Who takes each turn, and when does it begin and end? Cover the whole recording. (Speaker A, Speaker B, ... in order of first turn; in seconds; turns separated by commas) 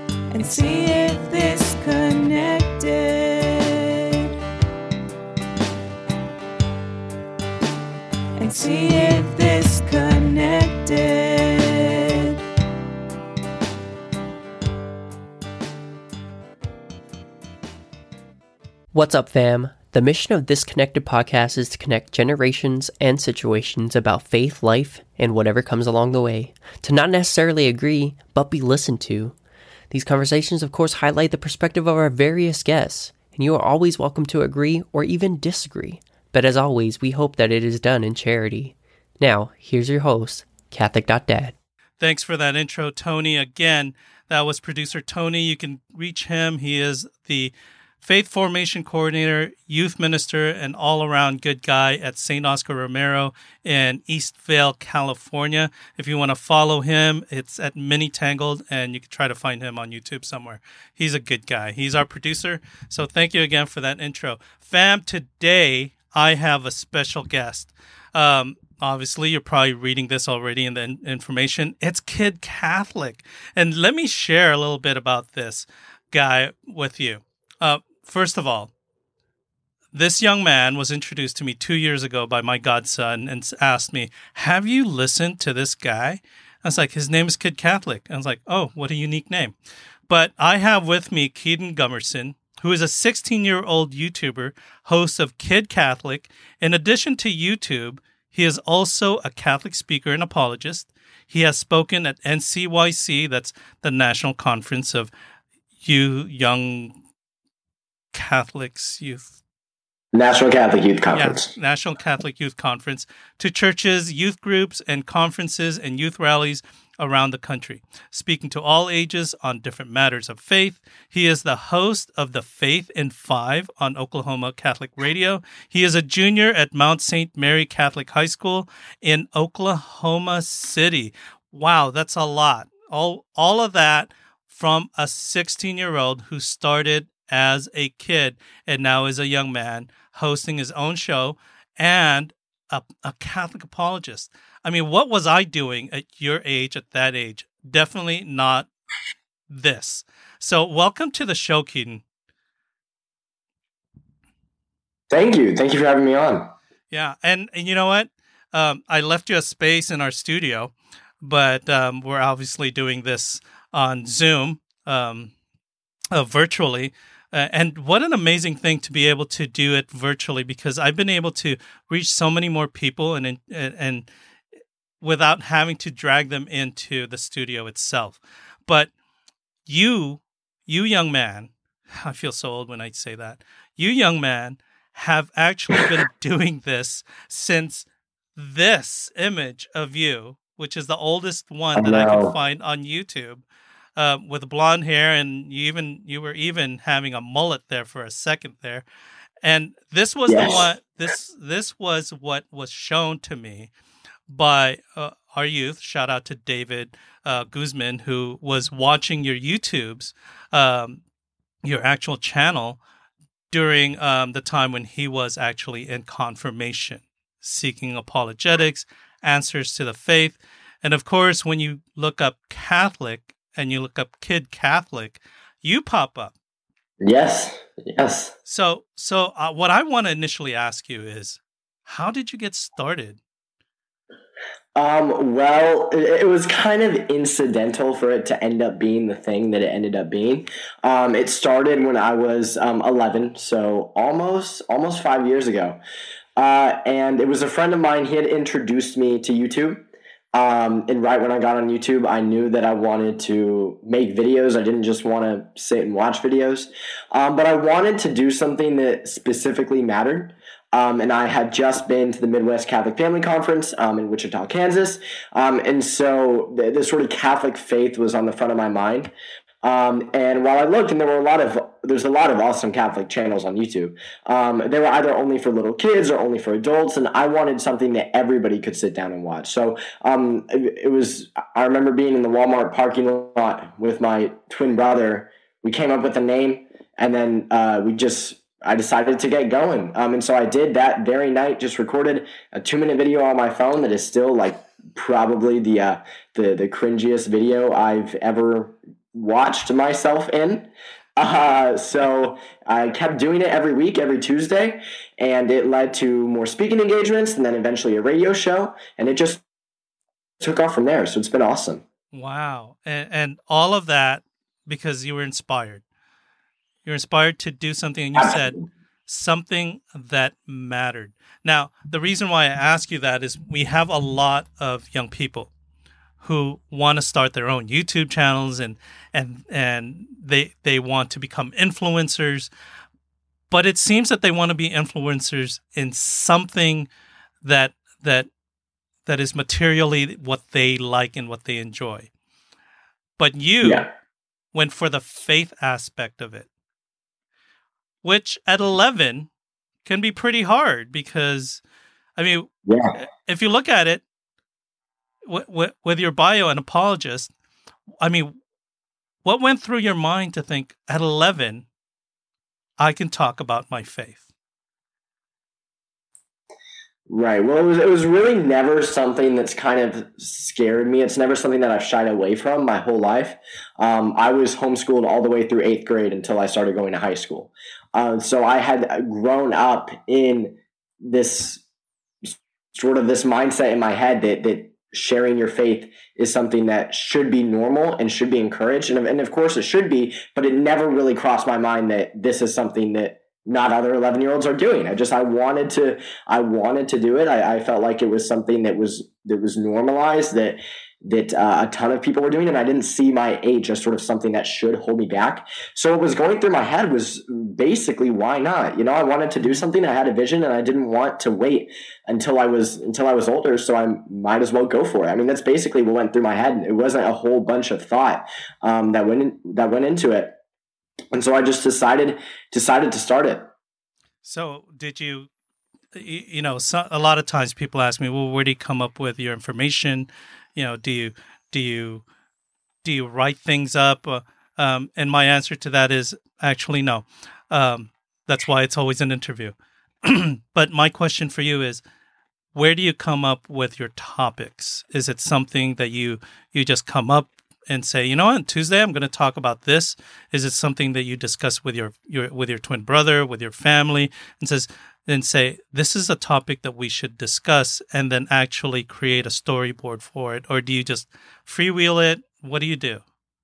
Speaker A: 0.3-4.3, Speaker A: 8.3-12.4, Speaker B: 18.9-29.3, Speaker B: 29.9-41.5, Speaker C: 42.0-78.7, Speaker C: 79.9-89.5, Speaker C: 90.1-105.1, Speaker C: 105.8-107.0, Speaker C: 108.1-109.3, Speaker D: 110.1-111.5, Speaker C: 111.1-148.7, Speaker C: 149.5-152.0, Speaker D: 155.1-156.5, Speaker C: 156.9-165.3, Speaker C: 166.1-174.1, Speaker C: 175.0-178.9, Speaker C: 179.7-193.4, Speaker D: 191.8-192.3, Speaker C: 193.9-198.8, Speaker C: 199.4-203.7, Speaker D: 200.3-200.6, Speaker C: 204.3-211.0, Speaker C: 211.6-212.8, Speaker C: 213.5-226.3, Speaker D: 227.0-228.3, Speaker C: 228.4-233.2, Speaker D: 234.7-245.8, Speaker D: 246.4-249.8, Speaker D: 250.3-269.1, Speaker D: 269.6-309.4, Speaker D: 310.4-311.8, Speaker C: 312.1-315.8, Speaker C: 316.8-325.5, Speaker C: 326.2-332.5, Speaker C: 333.5-336.9, Speaker C: 337.4-338.3, Speaker C: 339.1-342.1, Speaker C: 343.2-343.9, Speaker D: 343.6-343.9, Speaker C: 344.5-346.5, Speaker C: 348.0-349.3, Speaker C: 349.8-351.6, Speaker C: 352.2-354.0, Speaker D: 352.6-352.9, Speaker C: 355.2-357.3, Speaker C: 358.0-358.3, Speaker C: 359.2-361.7, Speaker C: 362.8-364.2, Speaker D: 367.1-381.6, Speaker D: 382.2-420.4, Speaker D: 421.1-423.5, Speaker C: 424.2-425.3, Speaker C: 425.9-432.0, Speaker C: 432.8-441.8, Speaker C: 442.5-463.0